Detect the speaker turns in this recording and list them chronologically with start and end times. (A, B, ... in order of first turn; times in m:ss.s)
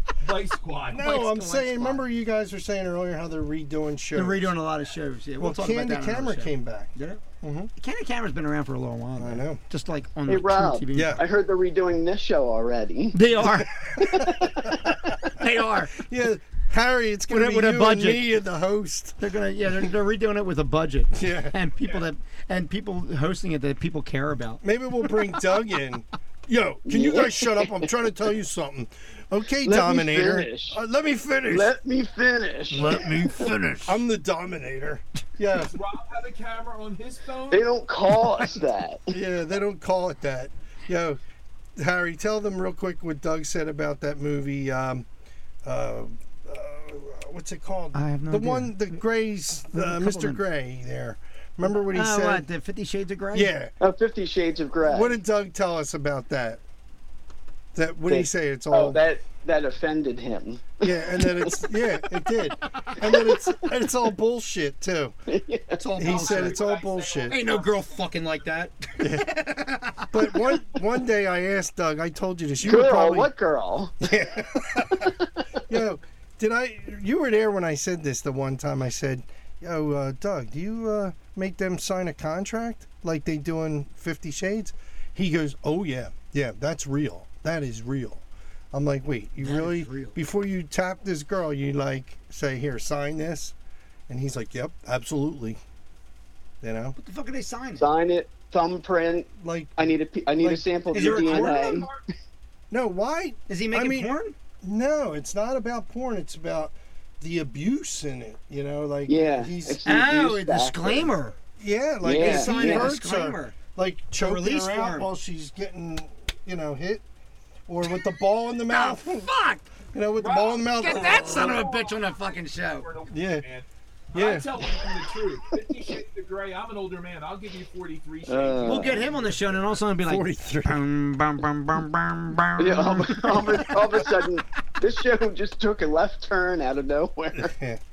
0:00.2-0:01.1 A
0:00.9-0:04.5 B
0:00.9-0:02.0 C
0:04.1-0:07.2 C
0:05.4-0:07.7 B
0:07.8-0:11.2 C
0:09.2-0:09.6 B
0:10.3-0:13.2 D
0:10.9-0:11.2 B
0:13.1-0:14.3 C
0:13.4-0:19.2 B
0:14.0-0:14.4 D
0:15.2-0:16.0 C
0:17.3-0:18.2 C
0:19.2-0:25.1 C
0:21.1-0:21.5 B
0:24.6-0:31.7 B
0:26.8-0:27.9 D
0:29.6-0:30.8 D
0:31.5-0:33.5 D
0:32.7-0:34.0 C
0:33.8-0:35.8 B
0:35.7-0:37.7 A
0:37.5-0:39.2 D
0:39.1-0:41.2 B
0:41.8-0:45.0 B
0:45.6-0:52.5 B
0:47.9-0:48.9 C
0:49.7-0:50.4 C
0:51.7-0:53.5 C
0:53.3-0:53.7 B
0:53.8-0:55.2 D
0:54.8-0:56.6 B
0:57.7-0:59.0 B
0:58.1-1:01.6 D
1:00.8-1:05.1 B
1:03.0-1:03.7 D
1:05.3-1:05.8 D
1:05.8-1:06.6 C
1:06.0-1:07.4 B
1:06.0-1:08.6 A
1:07.3-1:10.2 C
1:09.0-1:09.3 B
1:10.1-1:13.3 B
1:12.6-1:14.0 D
1:14.0-1:15.1 B
1:15.0-1:15.4 D
1:15.7-1:33.5 B
1:29.4-1:30.2 C
1:34.1-1:35.6 B
1:36.6-1:37.0 B
1:37.0-1:37.9 C
1:37.8-1:41.9 D
1:39.4-1:39.9 B
1:40.4-1:40.6 B
1:40.9-1:41.8 C
1:40.9-1:42.0 A
1:42.7-1:50.0 B
1:43.5-1:44.4 C
1:49.1-1:51.1 D
1:49.8-1:51.4 C
1:51.6-1:57.0 B
1:52.0-1:52.9 D
1:52.1-1:53.6 C
1:54.1-1:55.1 C
1:57.7-1:59.3 B
1:58.7-1:59.6 C
1:59.9-2:01.6 B
2:00.2-2:09.6 A
2:00.8-2:02.9 C
2:03.1-2:03.4 B
2:04.1-2:04.6 B
2:08.3-2:09.0 D
2:08.6-2:14.1 C
2:10.0-2:10.8 B
2:12.6-2:17.5 D
2:17.3-2:17.8 B